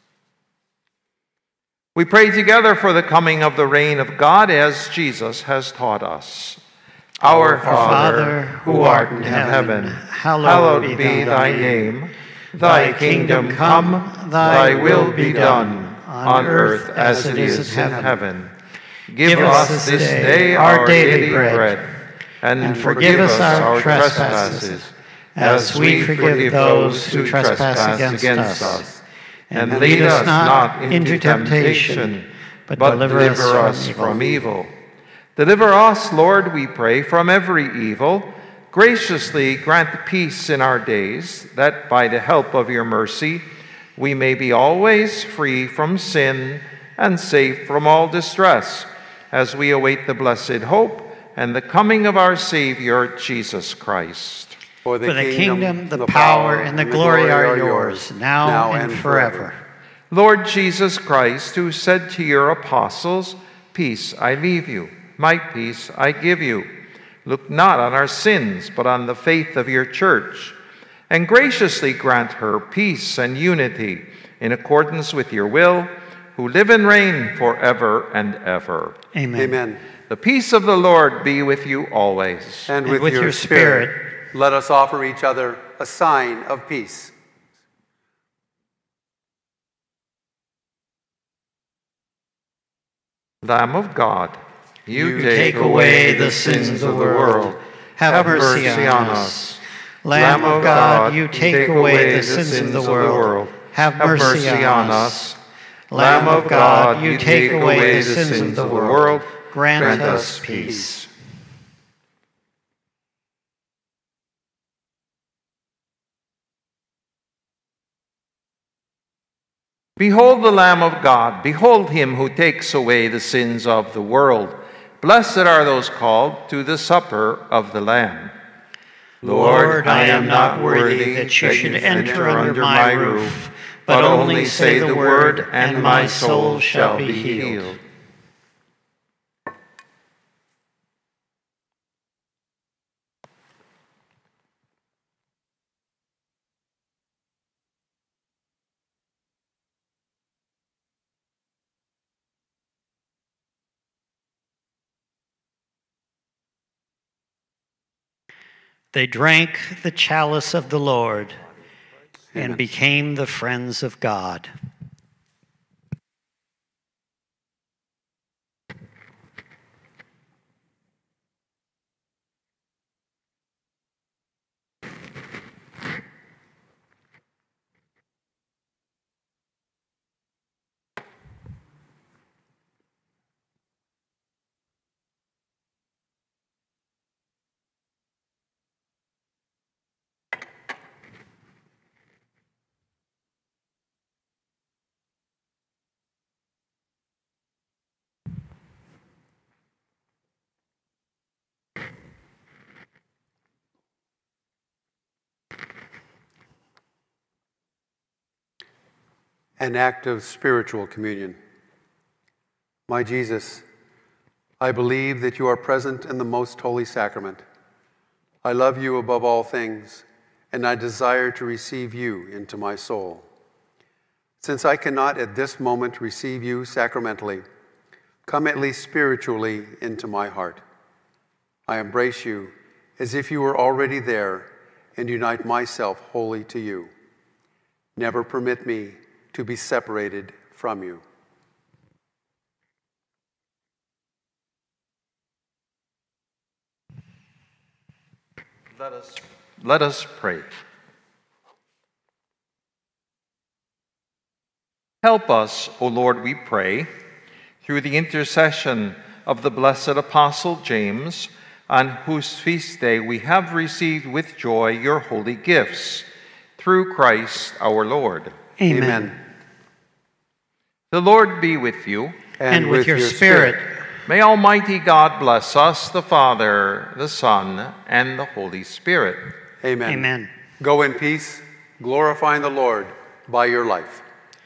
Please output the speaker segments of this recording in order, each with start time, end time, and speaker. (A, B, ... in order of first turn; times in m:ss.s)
0:02.0-0:06.6 A
0:07.2-0:18.5 A
0:07.2-0:09.7 B
0:07.6-0:11.9 C
0:10.8-0:11.8 B
0:12.6-0:18.2 C
0:14.5-0:15.7 B
0:17.1-0:18.2 B
0:19.1-0:28.9 A
0:19.2-0:21.8 C
0:22.6-0:24.6 B
0:22.6-0:24.8 C
0:25.4-0:28.9 C
0:27.6-0:28.9 B
0:29.5-0:34.4 C
0:29.5-0:34.7 A
0:29.7-0:30.4 B
0:32.8-0:34.4 B
0:35.4-0:43.4 A
0:44.0-0:54.6 A
0:54.8-0:59.5 B
0:55.0-0:59.6 C
1:00.1-1:06.7 A
1:07.2-1:10.6 A
1:11.1-1:19.0 A
1:19.1-1:19.6 C
1:19.4-1:19.8 B
1:20.1-1:22.7 A
1:22.7-1:27.1 B
1:22.8-1:24.1 C
1:33.4-1:39.6 A
1:34.9-1:35.9 B
1:35.2-1:39.5 C
1:40.0-1:45.3 C
1:40.1-1:45.4 A
1:45.9-1:51.0 C
1:45.9-1:51.0 A
1:46.2-1:46.5 B
1:47.1-1:49.2 B
1:49.8-1:51.0 B
2:00.0-2:08.3 A
2:09.2-2:17.8 A
2:09.2-2:17.8 C
2:11.4-2:12.7 B
2:38.9-2:41.4 C
2:42.3-2:42.6 B
2:42.4-2:44.5 C
3:29.6-3:31.4 B
3:32.9-3:33.6 B
3:34.6-3:37.4 B
3:38.4-3:43.3 B
3:44.4-3:47.4 B
3:48.3-3:50.6 B
3:51.7-3:56.9 B
3:58.0-4:01.0 B
4:08.8-4:10.5 A
4:15.0-4:16.9 A
4:17.6-4:26.1 A
4:26.6-4:28.4 A
4:28.6-4:29.1 C
4:28.7-4:29.2 B
4:30.9-4:32.2 A
4:32.4-4:33.6 B
4:32.5-4:33.8 C
4:34.1-4:39.3 A
4:39.6-4:40.1 B
4:39.9-4:40.3 C
4:40.6-4:44.0 B